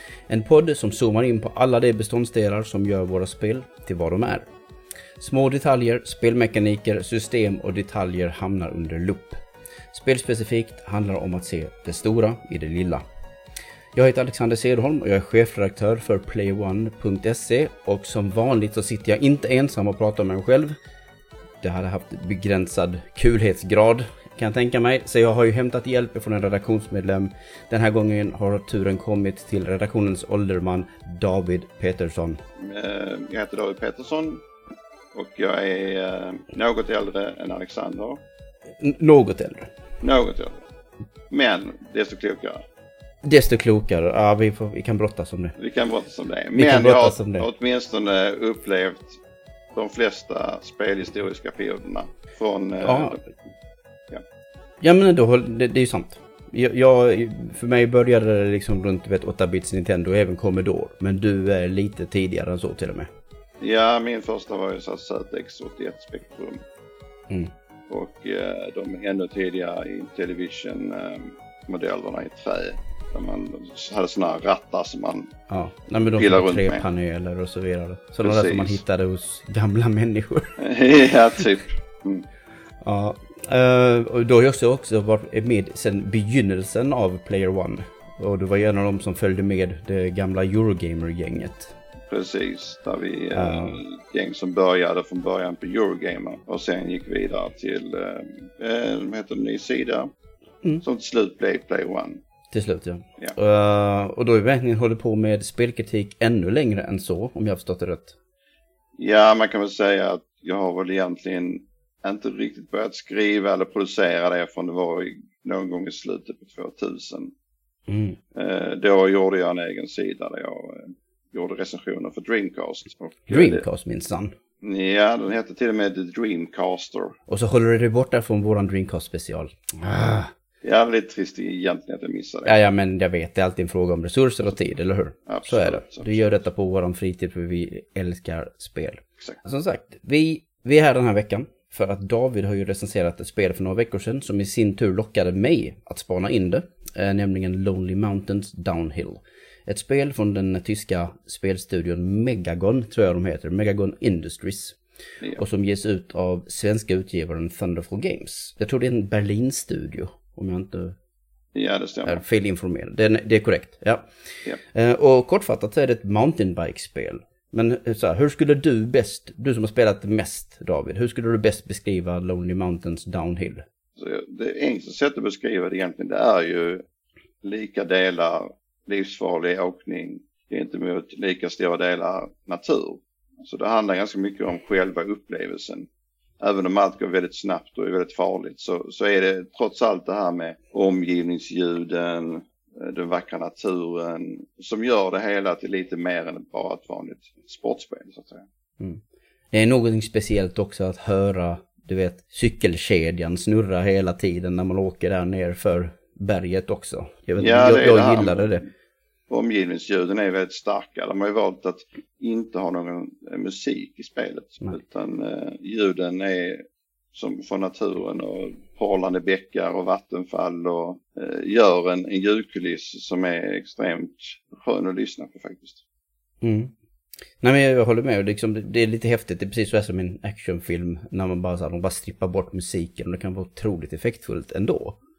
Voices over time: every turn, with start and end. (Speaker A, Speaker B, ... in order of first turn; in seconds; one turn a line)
Speaker A: 0.3-4.5
Speaker A: 5.2-9.4
Speaker A: 9.9-13.0
Speaker A: 13.9-20.7
Speaker A: 21.6-32.4
Speaker B: 32.6-34.4
Speaker B: 35.1-38.2
Speaker A: 38.8-39.7
Speaker B: 40.0-40.6
Speaker B: 41.3-42.6
Speaker A: 43.2-45.5
Speaker B: 45.6-49.2
Speaker A: 46.5-47.5
Speaker B: 49.7-53.2
Speaker A: 52.8-53.2
Speaker A: 54.8-63.1
Speaker B: 63.6-66.6
Speaker B: 67.9-75.3
Speaker A: 75.5-80.6
Speaker B: 76.1-76.8
Speaker B: 78.2-78.8
Speaker B: 80.6-82.2
Speaker A: 82.8-91.8
Speaker B: 92.1-100.1
Speaker A: 93.3-93.8
Speaker B: 100.8-102.2
Speaker A: 102.5-108.2
Speaker B: 109.0-117.3
Speaker A: 117.9-118.2
Speaker B: 118.3-123.6
Speaker A: 123.3-124.3
Speaker B: 124.6-127.2
Speaker A: 127.3-130.3
Speaker B: 130.6-132.5
Speaker A: 132.4-154.8
Speaker B: 135.3-136.2
Speaker A: 155.3-161.0
Speaker B: 161.5-162.2
Speaker A: 162.1-164.1
Speaker A: 164.6-173.6
Speaker B: 174.0-176.8
Speaker B: 177.4-185.9
Speaker B: 186.4-198.4
Speaker A: 199.5-208.7
Speaker B: 207.4-208.7
Speaker B: 209.3-216.6
Speaker B: 217.1-225.8
Speaker A: 226.4-226.7
Speaker A: 227.4-235.0